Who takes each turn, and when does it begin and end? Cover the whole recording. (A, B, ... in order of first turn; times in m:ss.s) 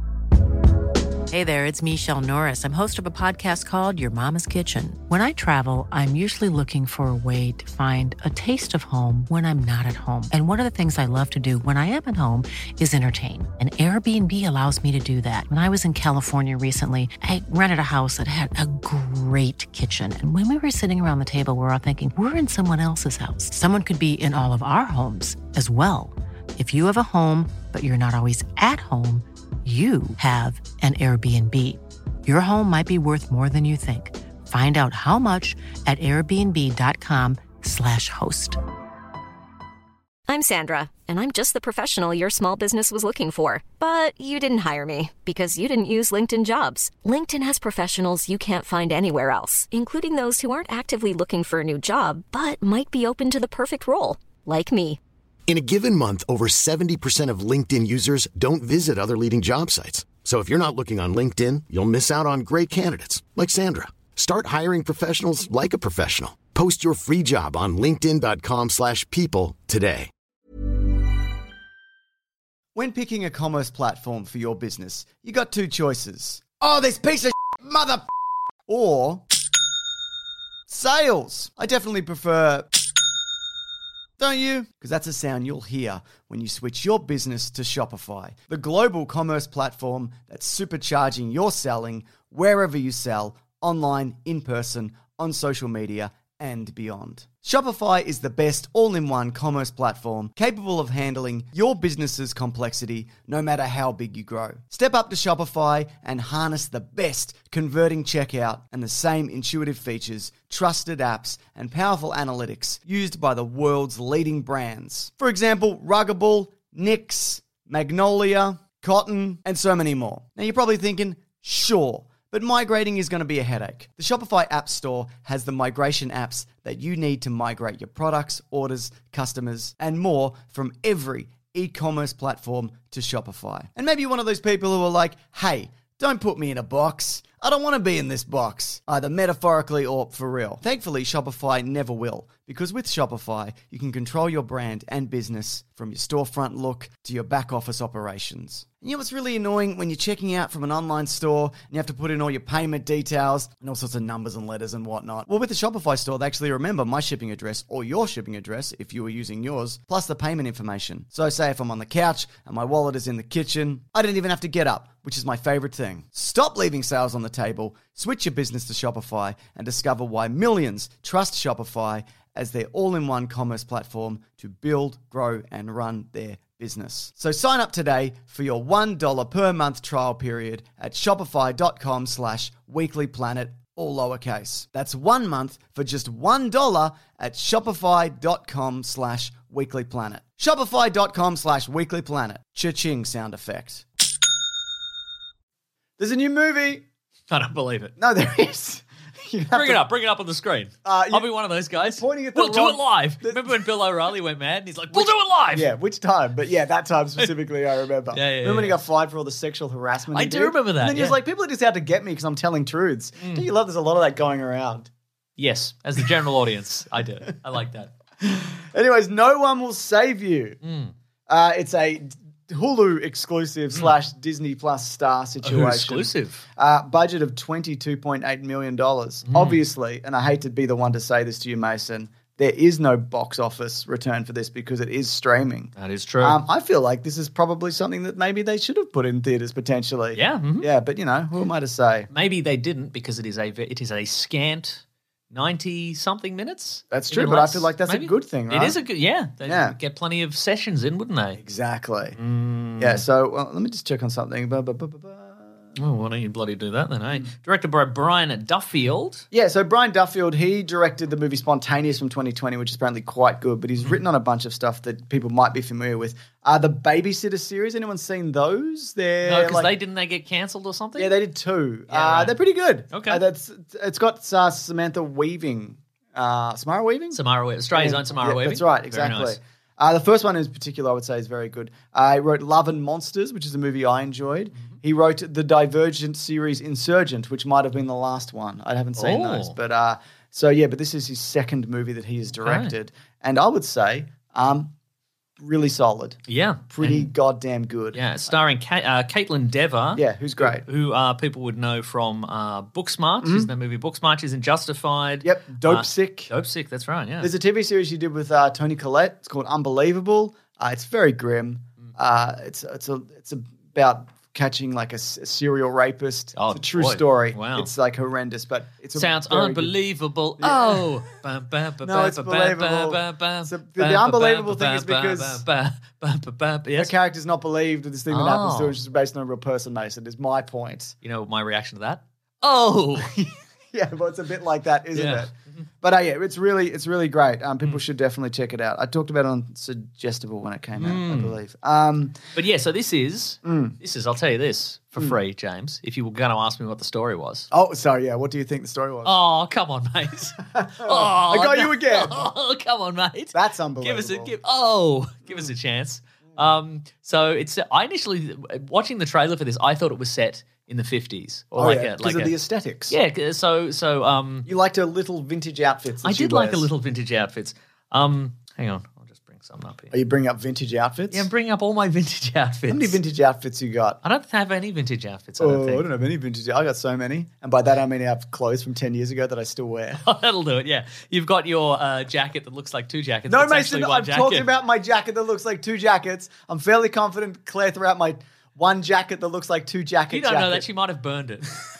0:01.3-0:38.6 A
0:40.3-0:55.0 B
0:55.5-1:10.1 C
1:12.8-1:18.1 D
1:18.7-1:19.2 D
1:20.7-1:22.7 D
1:24.2-3:13.8 D
3:16.0-3:16.9 D
3:17.3-3:18.0 E
3:18.0-3:19.8 D
3:19.5-3:25.7 E
3:20.8-3:23.6 D
3:24.9-3:34.9 D
3:28.1-3:28.8 E
3:30.1-3:31.2 E
3:33.2-3:33.5 E
3:35.4-3:37.9 E
3:38.2-3:40.6 D
3:40.6-3:40.9 E
3:41.3-4:02.1 D
3:45.4-3:46.4 E
3:49.3-3:49.6 E
3:55.8-3:56.4 E
4:00.1-4:00.7 E
4:02.1-4:11.4 E
4:06.9-4:08.8 D
4:09.4-4:09.8 D
4:11.4-4:12.2 D
4:12.2-4:13.0 E
4:12.8-4:15.7 D
4:15.8-4:19.3 E
4:19.3-4:29.7 D
4:29.2-4:31.2 E
4:31.0-4:37.2 D
4:31.9-4:32.4 E
4:32.9-4:33.2 E
4:37.1-4:39.4 E
4:37.7-4:54.7 D
4:49.0-4:49.6 E
4:52.4-4:52.8 E
4:55.4-4:56.2 D
4:56.3-4:57.1 E
4:56.7-4:58.0 D
4:57.9-5:07.3 E
5:00.0-5:00.6 D
5:03.2-5:03.5 D
5:05.2-5:06.3 D
5:07.2-5:19.7 D
5:16.4-5:17.7 E
5:18.9-5:26.9 E
5:20.4-5:21.0 D
5:21.8-5:25.4 D
5:26.8-5:31.0 D
5:28.1-5:28.8 E
5:31.0-5:33.1 E
5:33.0-5:42.2 D
5:35.0-5:35.6 E
5:40.8-5:41.4 E
5:42.4-5:47.5 E
5:43.4-5:43.8 D
5:47.5-5:49.2 D
5:49.0-6:02.3 E
5:50.5-5:52.3 D
5:53.3-5:54.3 D
6:01.5-6:03.0 D
6:02.9-6:04.5 E
6:04.5-6:06.7 D
6:06.0-6:10.0 E
6:09.9-6:11.3 D
6:11.1-6:13.0 E
6:12.7-6:14.0 D
6:14.0-6:15.9 E
6:15.4-6:20.0 D
6:20.0-6:24.5 E
6:23.3-6:30.6 D
6:30.1-6:31.5 E